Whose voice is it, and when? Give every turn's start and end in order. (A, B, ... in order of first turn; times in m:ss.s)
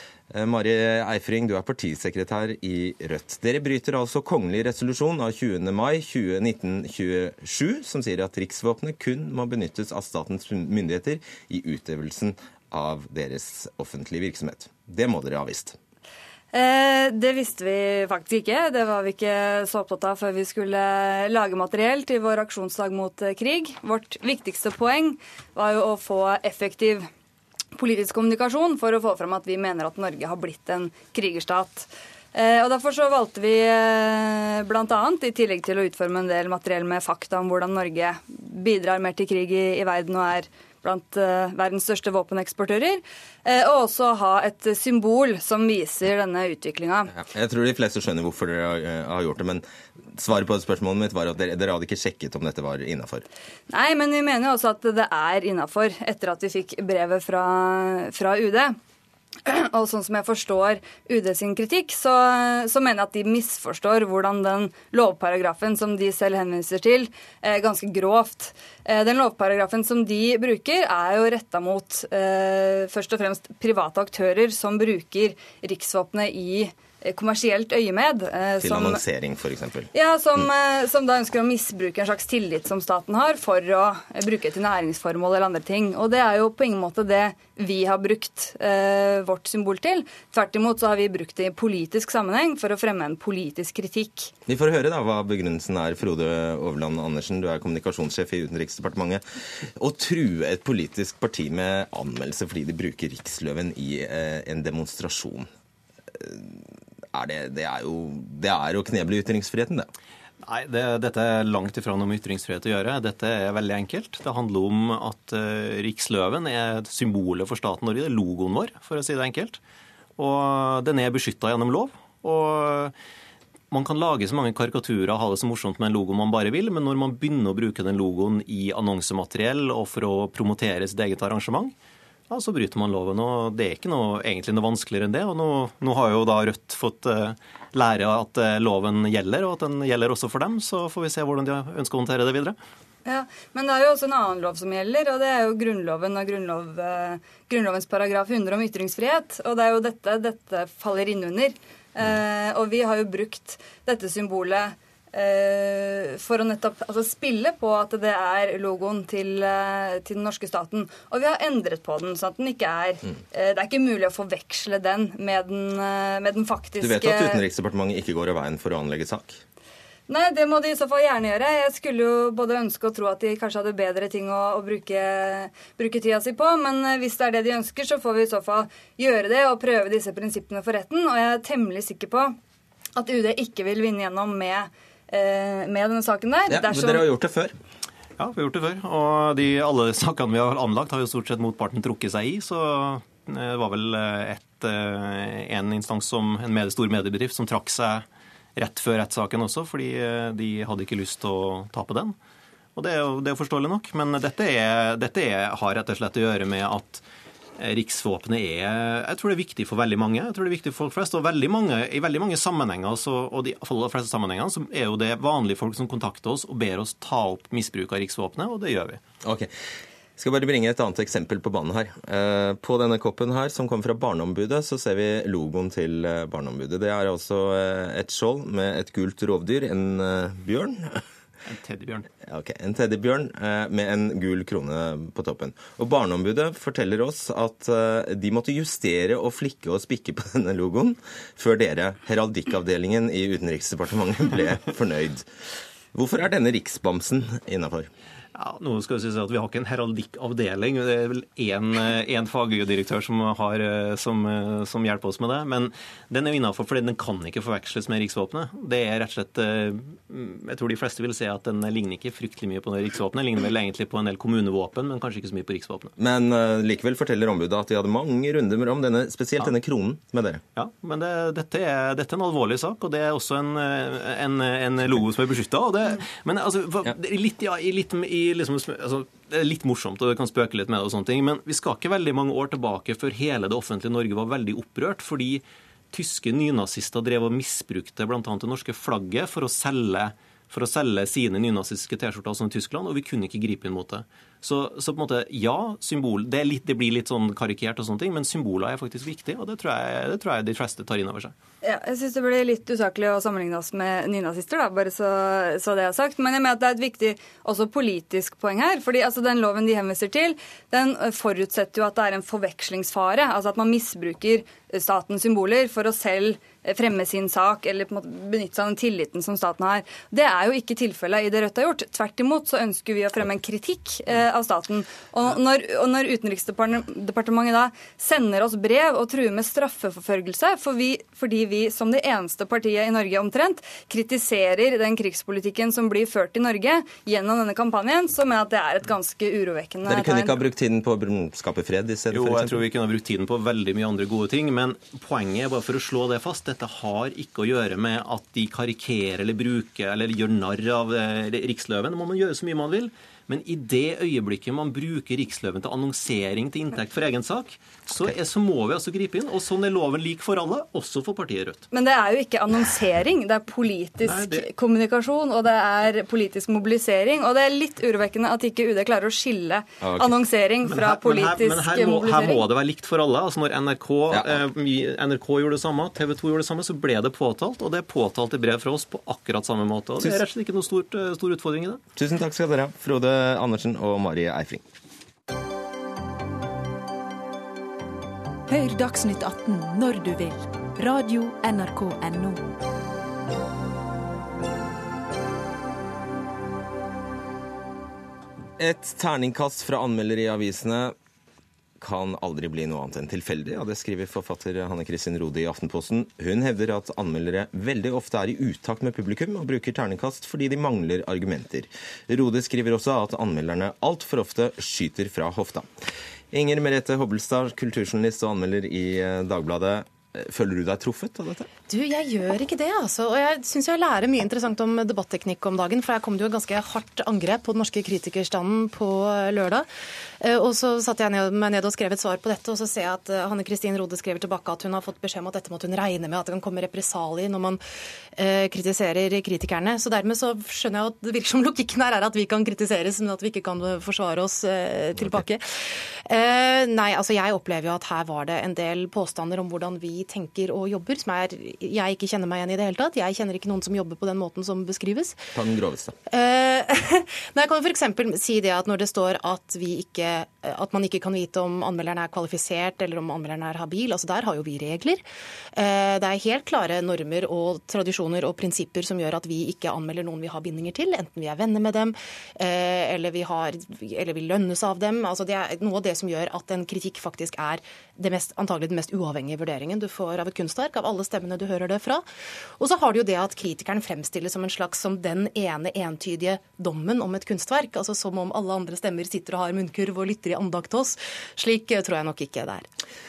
0:00.3-0:15.8 A
0:16.5-0:27.1 B
0:27.8-0:47.1 B
0:47.2-0:49.6 A
0:50.2-0:53.2 A
0:53.7-0:58.8 B
0:59.4-1:19.0 B
1:18.6-1:20.5 A
1:19.9-1:34.3 B
1:34.5-1:39.2 A
1:39.8-1:45.5 A
1:46.2-1:46.6 A
1:47.1-1:49.9 A
1:50.4-1:59.6 C
2:00.2-2:03.0 C
2:03.7-2:11.8 C
2:12.3-2:22.6 C
2:23.0-2:47.4 B
2:46.8-2:49.4 A
2:50.1-3:02.4 B
3:03.0-3:07.1 B
3:06.5-3:07.5 A
3:08.2-3:22.2 C
3:22.8-3:27.0 C
3:27.6-3:39.0 C
3:39.2-3:39.5 A
3:40.2-3:51.0 A
3:51.4-3:52.1 C
3:52.2-4:05.3 A
4:05.9-4:07.9 A
4:08.4-4:25.9 C
4:26.0-4:30.4 A
4:30.6-5:01.3 C
5:01.6-5:40.4 B
5:39.9-5:42.6 A
5:42.1-6:01.6 C
6:01.7-6:12.5 B
6:04.0-6:04.4 C
6:09.8-6:10.2 A
6:10.7-6:21.8 C
6:14.1-6:14.4 A
6:22.0-6:24.6 A
6:28.5-6:32.4 D
6:38.6-6:41.0 A
6:41.8-6:55.7 A
6:56.3-7:01.5 A
7:01.7-7:09.7 E
7:10.2-7:17.6 E
7:18.2-7:35.2 E
7:35.4-7:36.0 A
7:36.1-7:45.0 E
7:45.6-8:02.0 E
8:02.6-8:12.7 E